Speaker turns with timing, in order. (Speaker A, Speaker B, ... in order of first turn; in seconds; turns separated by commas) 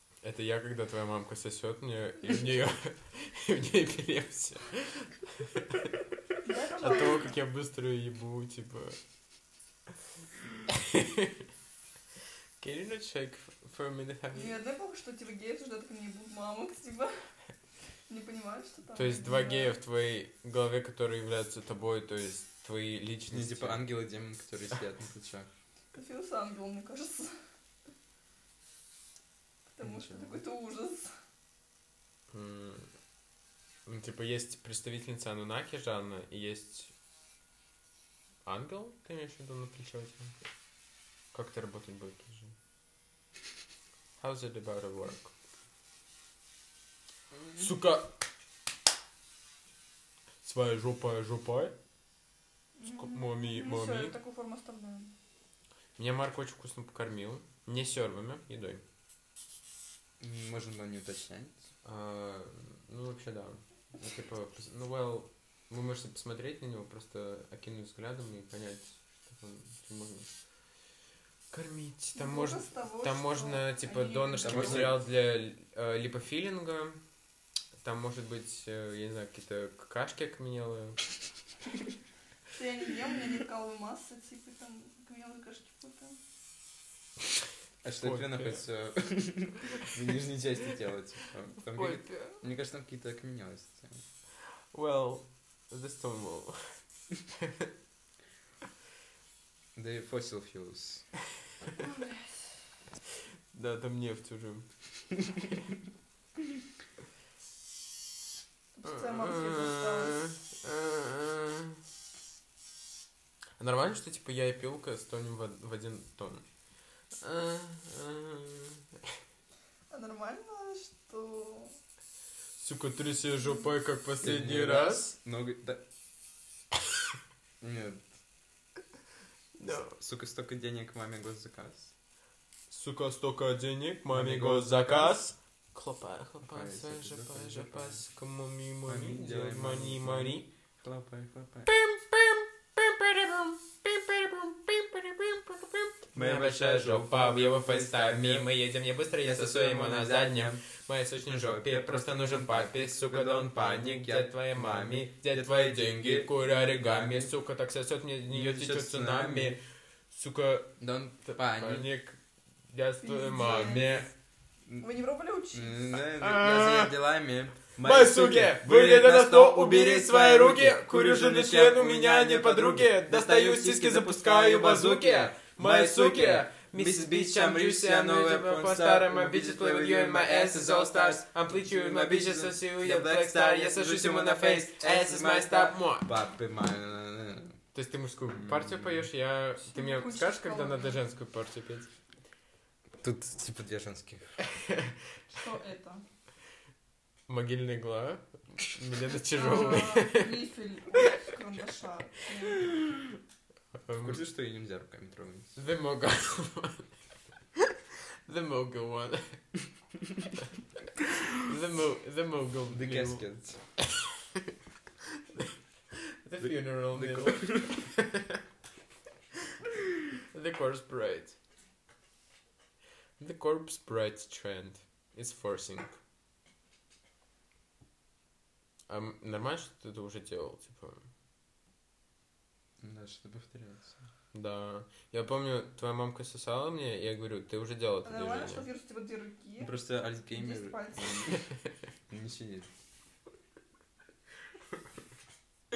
Speaker A: 0.2-6.0, Speaker B: 6.4-7.3, Speaker A: 6.8-9.0, Speaker A: 10.7-11.4, Speaker A: 12.6-14.5, Speaker B: 14.3-17.2, Speaker B: 18.1-19.7, Speaker A: 18.9-23.8, Speaker C: 23.3-25.5, Speaker B: 25.9-27.3, Speaker B: 29.7-31.1, Speaker C: 29.8-30.4, Speaker A: 32.3-32.9, Speaker A: 33.9-36.9, Speaker A: 38.4-40.3, Speaker A: 41.3-42.5, Speaker A: 44.2-45.3, Speaker A: 47.5-48.1, Speaker A: 50.4-51.7, Speaker B: 52.8-55.1, Speaker A: 52.9-54.1, Speaker A: 56.0-58.8, Speaker C: 60.2-61.7, Speaker A: 61.8-70.3, Speaker A: 71.5-77.0, Speaker B: 72.1-74.9, Speaker C: 74.4-75.0, Speaker A: 77.8-81.0, Speaker B: 82.5-86.2, Speaker C: 87.8-94.0, Speaker A: 88.0-88.6, Speaker B: 91.8-92.4, Speaker A: 94.7-96.8, Speaker A: 97.3-97.7, Speaker C: 99.7-101.1, Speaker B: 101.8-102.3, Speaker A: 103.5-105.1, Speaker B: 108.7-110.2, Speaker A: 108.8-111.8, Speaker A: 113.6-116.4, Speaker A: 117.1-119.1, Speaker B: 119.9-121.8, Speaker A: 122.6-125.1, Speaker C: 124.2-125.8, Speaker C: 127.6-128.0, Speaker A: 129.6-130.0, Speaker C: 130.0-131.9, Speaker A: 132.7-140.5, Speaker C: 134.1-135.2, Speaker C: 136.4-138.0, Speaker C: 138.9-141.7, Speaker A: 141.7-162.2, Speaker C: 146.1-148.5, Speaker C: 149.2-150.6, Speaker C: 151.2-157.3, Speaker C: 158.3-159.6, Speaker C: 160.8-161.9, Speaker A: 162.7-164.1, Speaker B: 163.0-164.1, Speaker C: 163.4-164.0, Speaker B: 164.8-165.9, Speaker C: 165.5-187.6, Speaker A: 166.2-167.0, Speaker A: 167.8-186.1, Speaker A: 187.7-191.9, Speaker C: 188.3-189.1, Speaker B: 189.6-191.0, Speaker C: 193.0-194.4, Speaker A: 194.4-195.0, Speaker B: 195.3-196.0, Speaker A: 197.3-201.1, Speaker B: 199.1-202.7, Speaker A: 202.6-203.0, Speaker A: 203.7-204.2, Speaker C: 204.0-205.6, Speaker A: 205.6-206.9, Speaker A: 208.2-209.4, Speaker A: 211.3-213.2, Speaker C: 212.7-213.6, Speaker A: 213.8-214.5, Speaker A: 215.3-218.4, Speaker C: 216.4-217.8, Speaker A: 220.3-221.3, Speaker A: 223.2-225.9, Speaker A: 228.9-231.1, Speaker C: 232.8-234.1, Speaker A: 234.3-238.7, Speaker B: 238.0-239.8, Speaker C: 239.6-241.4, Speaker B: 240.3-241.3, Speaker C: 242.1-242.7